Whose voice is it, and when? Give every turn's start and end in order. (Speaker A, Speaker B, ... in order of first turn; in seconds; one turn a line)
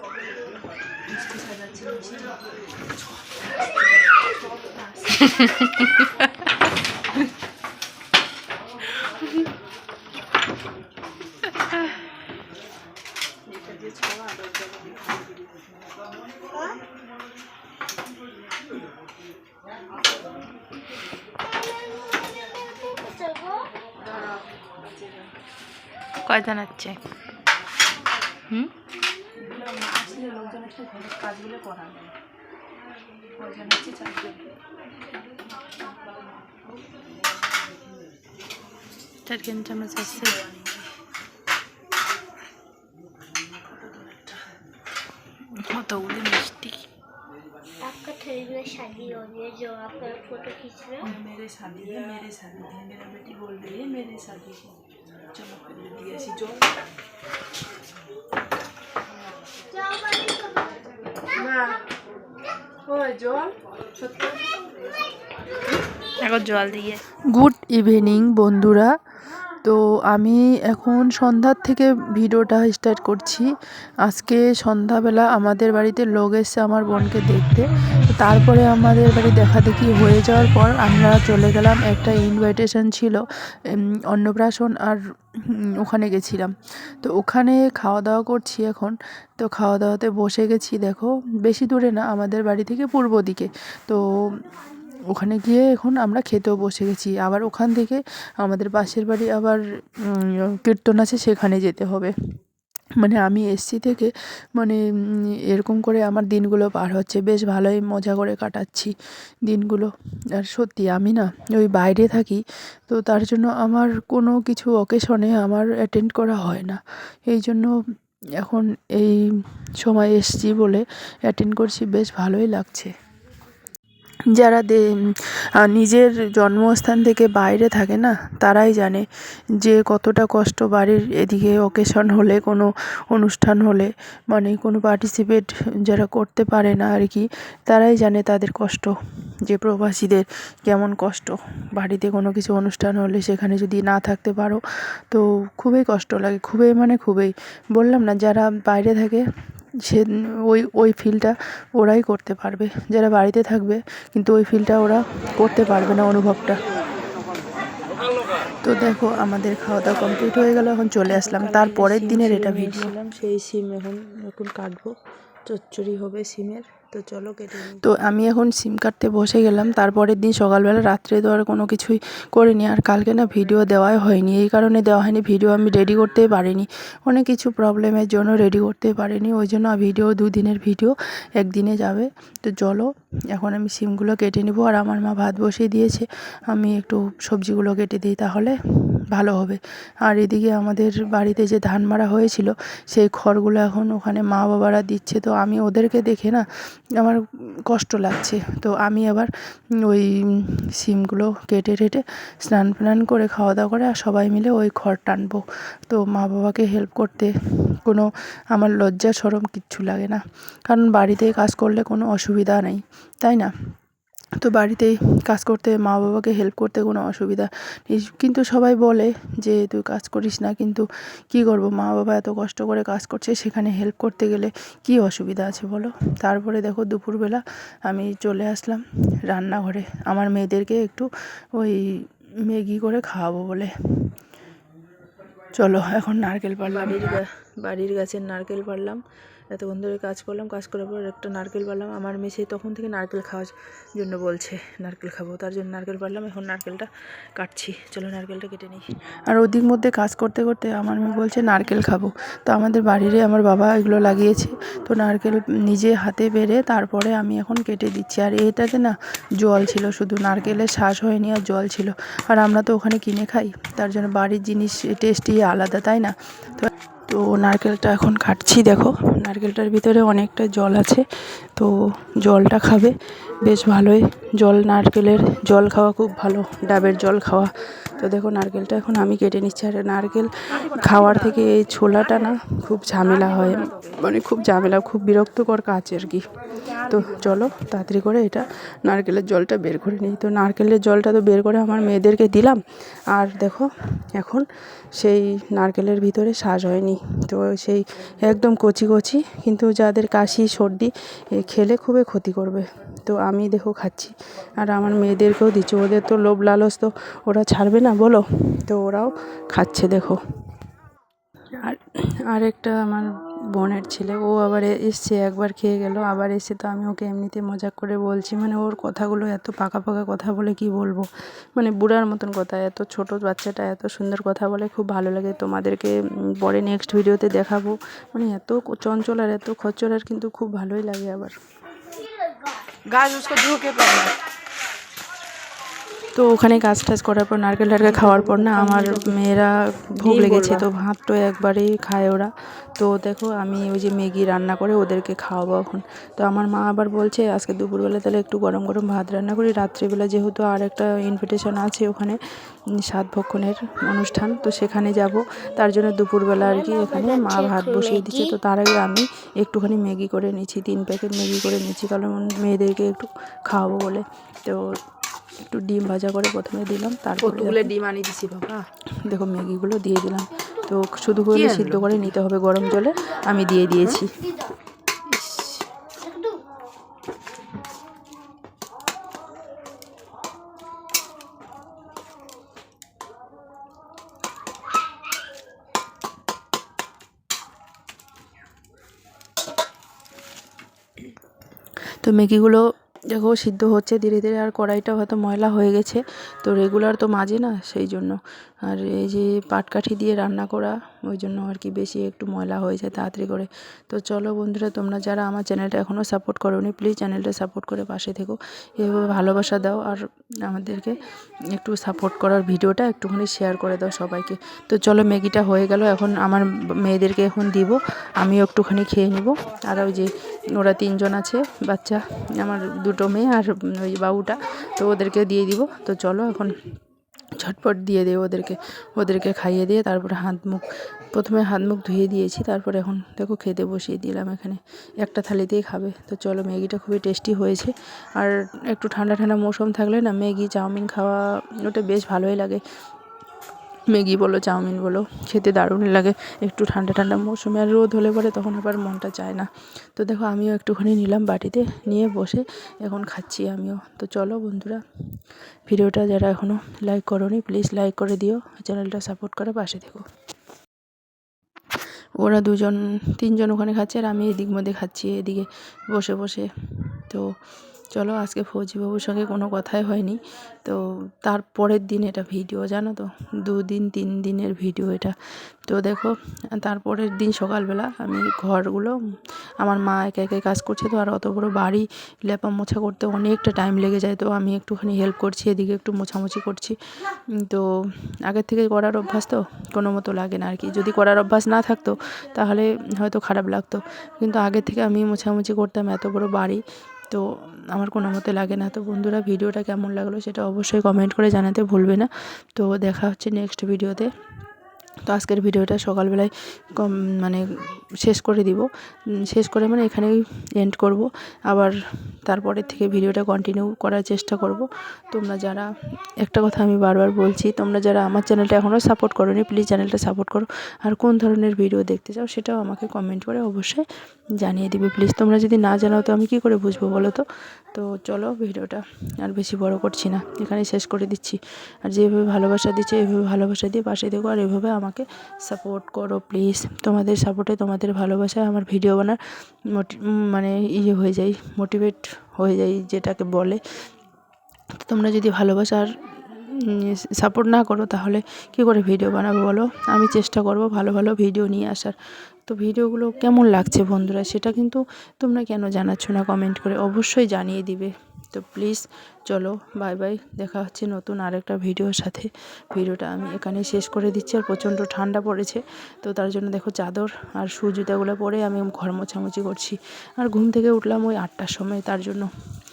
Speaker A: 1.1-3.1
Speaker A: 4.4-5.6
Speaker A: 13.5-14.7
Speaker B: 23.0-23.6
Speaker A: 24.1-25.1
Speaker A: 29.4-32.1
Speaker A: 33.4-34.3
Speaker C: 39.3-40.1
Speaker A: 40.0-40.4
Speaker C: 45.8-46.8
Speaker B: 47.8-51.1
Speaker D: 51.1-51.6
Speaker A: 51.6-53.3
Speaker A: 55.3-56.5
Speaker A: 61.4-61.7
Speaker A: 62.9-63.5
Speaker A: 64.0-64.3
Speaker A: 66.2-66.8
Speaker C: 66.9-68.9
Speaker C: 69.6-73.5
Speaker C: 74.0-85.0
Speaker C: 85.8-94.0
Speaker C: 95.1-102.1
Speaker C: 103.0-104.8
Speaker C: 105.5-108.9
Speaker C: 109.5-117.7
Speaker C: 118.4-119.2
Speaker C: 119.8-122.9
Speaker C: 124.3-124.8
Speaker C: 125.6-129.1
Speaker C: 129.6-138.9
Speaker C: 139.4-149.2
Speaker C: 149.8-156.6
Speaker C: 158.6-164.9
Speaker D: 161.1-163.1
Speaker C: 165.5-188.6
Speaker D: 167.3-167.7
Speaker C: 189.1-196.4
Speaker C: 197.0-199.3
Speaker C: 199.8-213.5
Speaker C: 214.4-231.8
Speaker C: 232.5-233.7
Speaker C: 235.6-239.0
Speaker C: 239.5-286.2
Speaker D: 280.8-281.4
Speaker D: 283.0-283.9
Speaker C: 286.8-292.5
Speaker D: 286.9-287.2
Speaker D: 290.6-291.0
Speaker C: 293.1-293.6
Speaker C: 295.0-297.8
Speaker C: 298.3-300.9
Speaker D: 299.0-299.4
Speaker C: 301.4-304.1
Speaker C: 304.6-310.1
Speaker C: 312.3-313.0
Speaker C: 313.6-321.0
Speaker C: 321.6-325.9
Speaker C: 326.4-331.3
Speaker D: 332.9-334.1
Speaker C: 336.1-342.3
Speaker D: 337.8-339.4
Speaker D: 340.0-340.7
Speaker C: 342.8-352.1
Speaker C: 352.9-364.6
Speaker D: 354.5-355.1
Speaker B: 356.4-358.4
Speaker C: 365.4-367.7
Speaker D: 367.2-368.6
Speaker C: 369.1-374.1
Speaker D: 371.3-372.1
Speaker C: 375.1-375.6
Speaker C: 392.0-411.0
Speaker C: 411.5-426.5
Speaker C: 427.4-442.6
Speaker C: 443.9-454.8
Speaker C: 455.7-460.0
Speaker C: 462.2-467.2
Speaker C: 467.9-479.0
Speaker C: 479.6-486.8
Speaker C: 488.2-504.1
Speaker C: 505.1-507.4
Speaker C: 508.0-508.7
Speaker C: 509.2-515.7
Speaker C: 516.2-523.9
Speaker C: 524.4-539.2
Speaker C: 539.7-543.6
Speaker C: 544.8-551.9
Speaker C: 552.5-572.3